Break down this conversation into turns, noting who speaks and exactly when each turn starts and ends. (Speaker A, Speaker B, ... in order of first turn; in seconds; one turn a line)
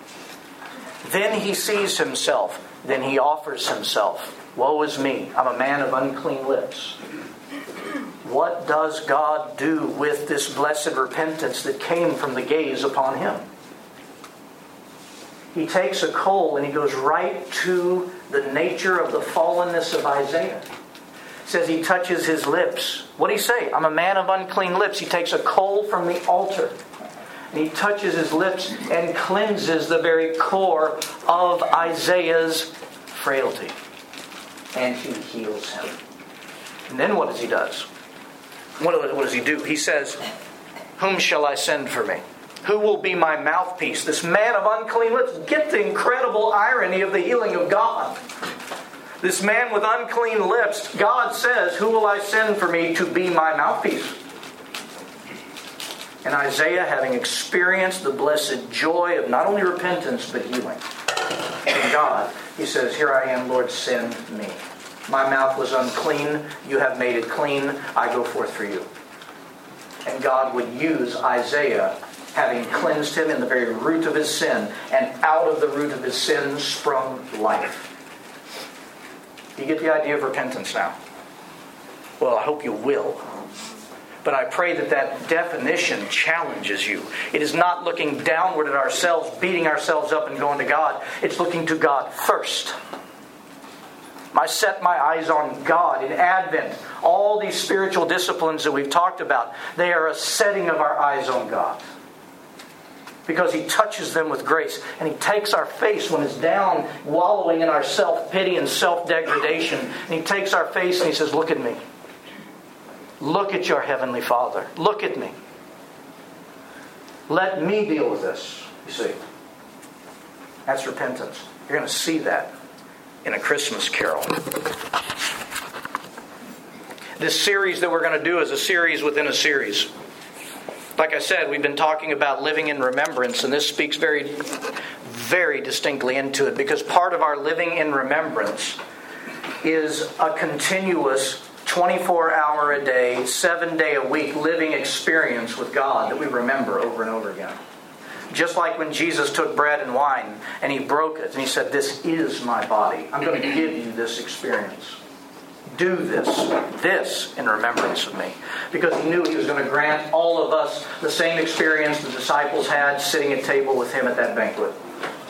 Speaker A: 1.0-7.0
Speaker A: 8.2-13.4
Speaker A: 15.5-20.6
Speaker A: 21.4-26.8
Speaker A: 27.5-33.8
Speaker A: 34.8-36.0
Speaker A: 36.9-37.9
Speaker A: 38.8-40.2
Speaker A: 41.0-48.2
Speaker A: 49.2-54.1
Speaker A: 56.2-60.8
Speaker A: 61.7-68.9
Speaker A: 70.0-77.9
Speaker A: 79.6-81.0
Speaker A: 82.2-83.2
Speaker A: 84.2-92.8
Speaker A: 94.3-101.8
Speaker A: 103.3-111.8
Speaker A: 113.2-115.3
Speaker A: 117.3-119.2
Speaker A: 120.7-122.5
Speaker A: 123.2-124.3
Speaker A: 127.2-129.9
Speaker A: 131.0-138.8
Speaker A: 139.6-147.6
Speaker A: 148.3-155.0
Speaker A: 155.7-164.8